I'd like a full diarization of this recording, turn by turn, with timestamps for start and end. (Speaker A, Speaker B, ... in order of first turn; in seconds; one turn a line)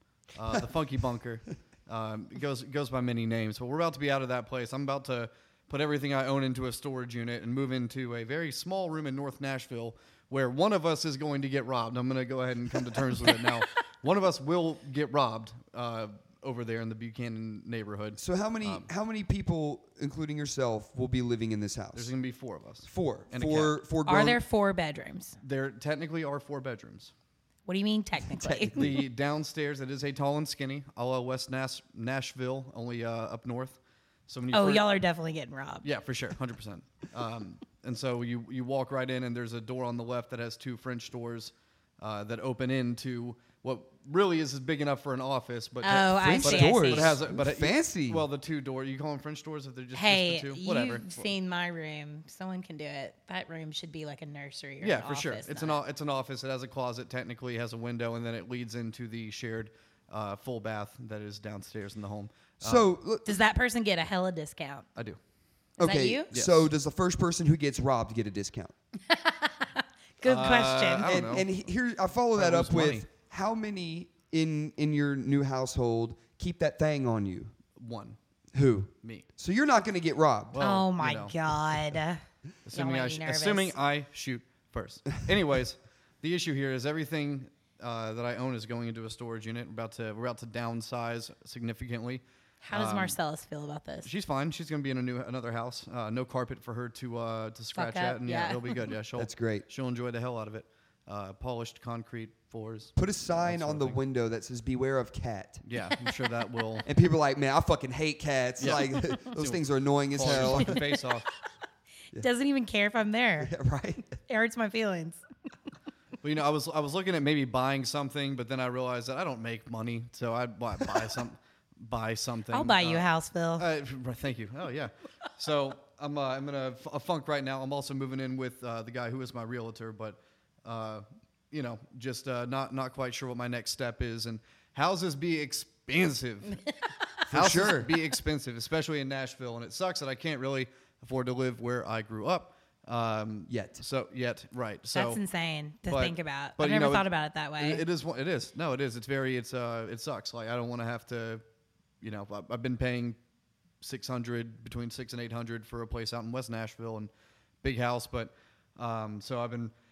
Speaker A: 0.3-18.9
Speaker B: 18.2-22.1
Speaker A: 21.9-23.7
Speaker B: 22.9-24.4
Speaker C: 24.1-25.4
Speaker A: 25.4-27.1
Speaker C: 27.6-28.9
Speaker B: 28.4-29.0
Speaker A: 28.7-34.9
Speaker C: 34.5-35.8
Speaker A: 35.8-51.3
Speaker C: 45.8-47.1
Speaker B: 46.1-48.2
Speaker C: 49.9-55.8
Speaker A: 54.8-62.9
Speaker B: 62.6-63.3
Speaker C: 63.2-64.8
Speaker B: 65.8-68.7
Speaker C: 65.8-66.3
Speaker A: 66.3-66.7
Speaker C: 69.1-71.2
Speaker A: 70.2-71.5
Speaker B: 71.1-77.5
Speaker A: 72.3-73.1
Speaker A: 77.8-78.2
Speaker B: 78.5-80.6
Speaker A: 80.5-81.9
Speaker C: 80.6-82.2
Speaker A: 82.7-93.1
Speaker C: 82.7-83.7
Speaker C: 92.6-94.1
Speaker A: 94.0-104.0
Speaker C: 97.7-98.7
Speaker B: 99.2-99.6
Speaker B: 103.0-105.6
Speaker A: 105.6-106.8
Speaker B: 106.8-110.8
Speaker A: 108.6-109.6
Speaker A: 110.1-111.2
Speaker C: 112.2-113.5
Speaker B: 113.4-114.2
Speaker C: 114.3-115.2
Speaker A: 116.2-123.0
Speaker C: 122.5-123.6
Speaker A: 123.6-136.6
Speaker A: 137.3-145.2
Speaker B: 137.3-137.9
Speaker B: 143.5-143.8
Speaker C: 144.9-147.8
Speaker A: 145.9-147.1
Speaker A: 147.6-151.4
Speaker A: 152.0-153.2
Speaker A: 153.8-157.1
Speaker A: 157.6-159.7